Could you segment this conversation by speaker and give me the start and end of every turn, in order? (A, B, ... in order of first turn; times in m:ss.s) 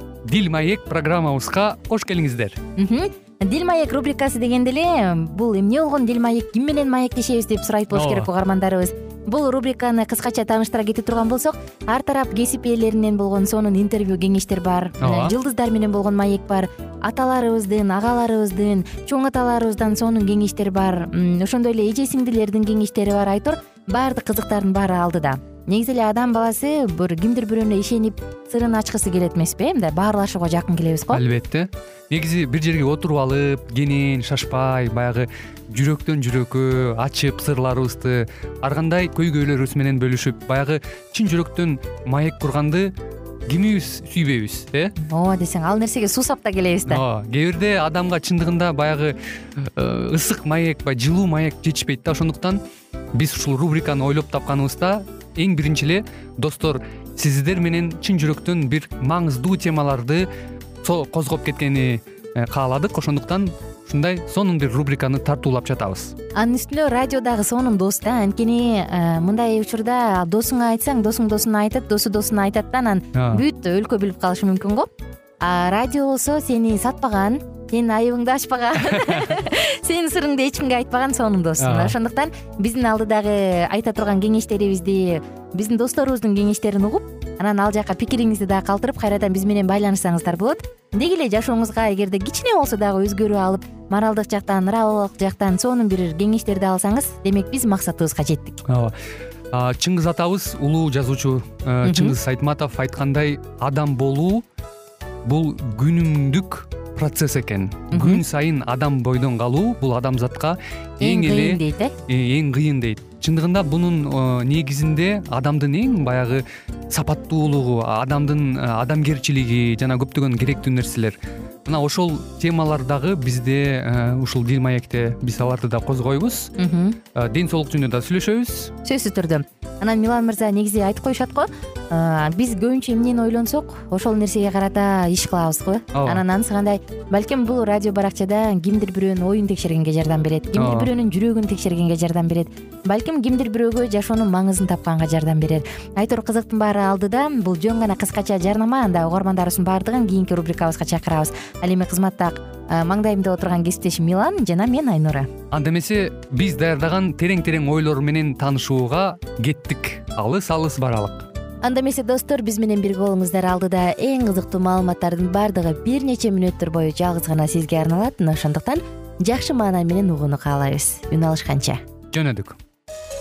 0:00.2-0:02.6 A
0:02.8-0:31.2 B
0:07.9-0:08.3 A
0:15.0-0:15.3 A
0:31.1-0:42.9 A
0:43.5-0:44.9 A
0:45.0-0:47.0 B
0:46.9-0:52.6 A
0:53.1-1:00.3 A
1:00.8-1:06.1 A
1:06.3-1:14.9 B
1:13.1-1:13.4 A
1:15.4-1:38.6 B
1:21.6-1:21.9 A
1:38.7-1:38.9 A
1:39.5-1:44.4 A
1:41.8-1:42.1 B
1:45.2-2:06.5 A
1:47.9-1:48.2 B
1:51.0-1:51.9 B
2:06.6-2:07.0 B
2:07.1-2:08.7 A
2:08.8-2:35.3 B
2:15.9-2:16.2 A
2:20.6-2:20.9 A
2:35.5-2:41.3 A
2:41.6-2:51.8 B
2:52.1-2:52.6 A